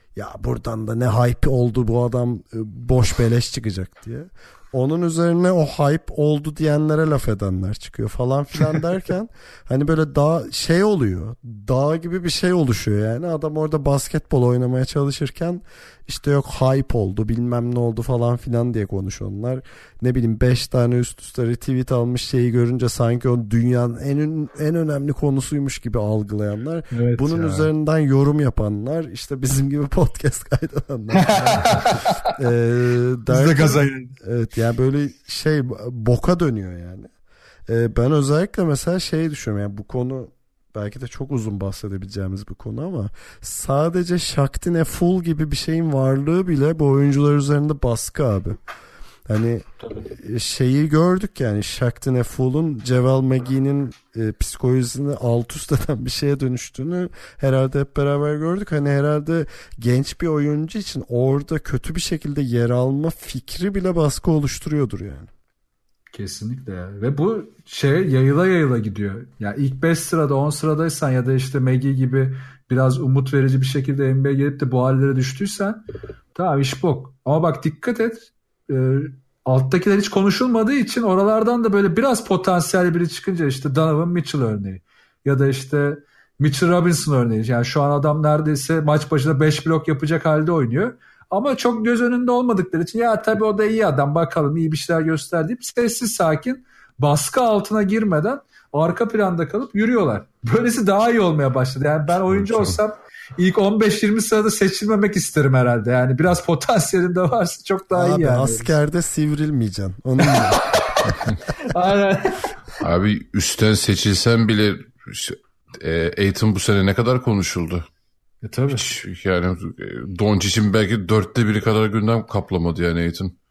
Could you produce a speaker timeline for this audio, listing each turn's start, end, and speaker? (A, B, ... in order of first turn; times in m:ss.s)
0:00.2-0:37.1 A
0:26.9-0:27.7 B
0:31.2-0:32.3 B
0:33.3-0:34.2 B
0:37.7-0:48.6 A
0:49.3-1:05.3 A
0:49.8-0:50.1 B
1:06.1-1:15.8 B
1:16.3-1:48.8 B
1:42.3-1:42.8 C
1:47.9-1:50.7 A
1:50.3-1:52.6 B
1:52.8-1:57.9 C
1:58.4-1:58.9 B
1:58.7-2:03.4 C